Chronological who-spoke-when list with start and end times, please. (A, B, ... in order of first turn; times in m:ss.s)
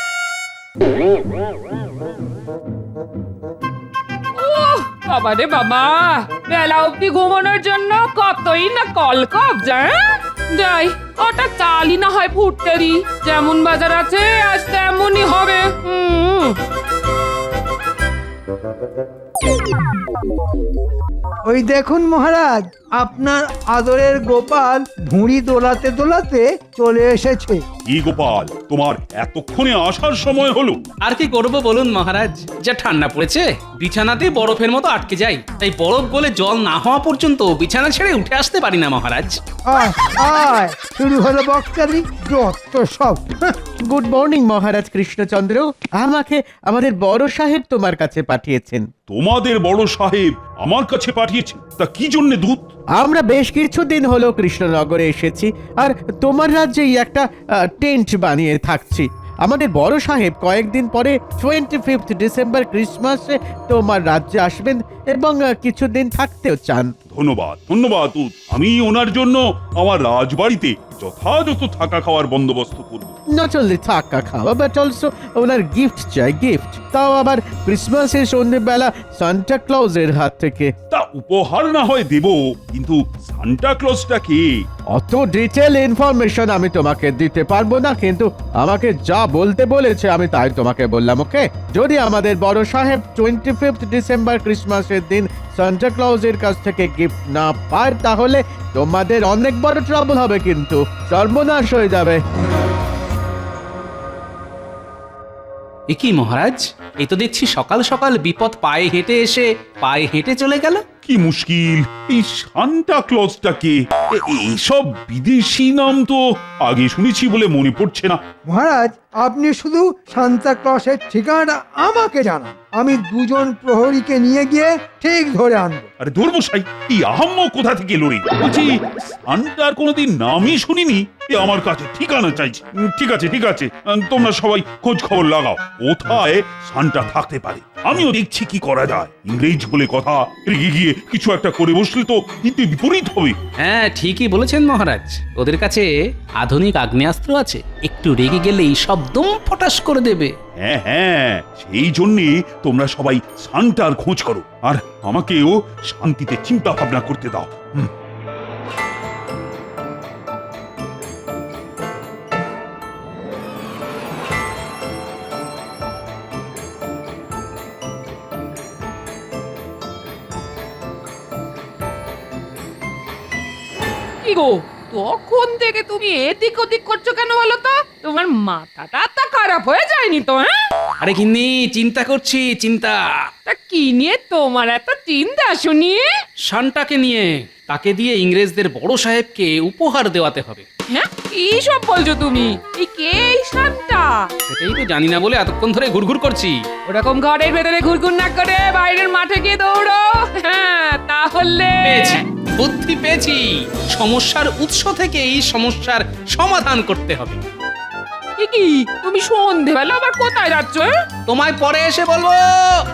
0:04.4-0:16.6 A
0:21.4-0:27.6 B
0:27.9-0:30.8 C
0:31.0-0:39.4 D
0:39.7-0:43.5 B
0:43.9-0:48.9 E
0:49.1-0:52.7 C
0:53.0-1:06.9 E
1:07.1-1:13.2 C
1:13.3-1:20.7 E
1:20.9-1:24.5 C
1:24.9-1:42.2 E
1:45.9-1:50.8 D
1:51.0-1:58.2 C
1:58.5-2:05.9 B
2:06.0-2:08.8 C
2:09.3-2:23.4 C
2:23.6-2:25.9 D
2:26.4-2:30.3 D
2:30.6-2:37.9 C
2:54.2-3:00.6 A
3:01.0-3:03.0 D
3:03.5-3:06.1 A
3:06.5-3:10.7 D
3:10.9-3:14.3 A
3:14.5-3:16.6 D
3:16.9-3:22.2 A
3:21.8-3:27.4 D
3:28.4-3:30.9 A
3:31.3-3:32.8 D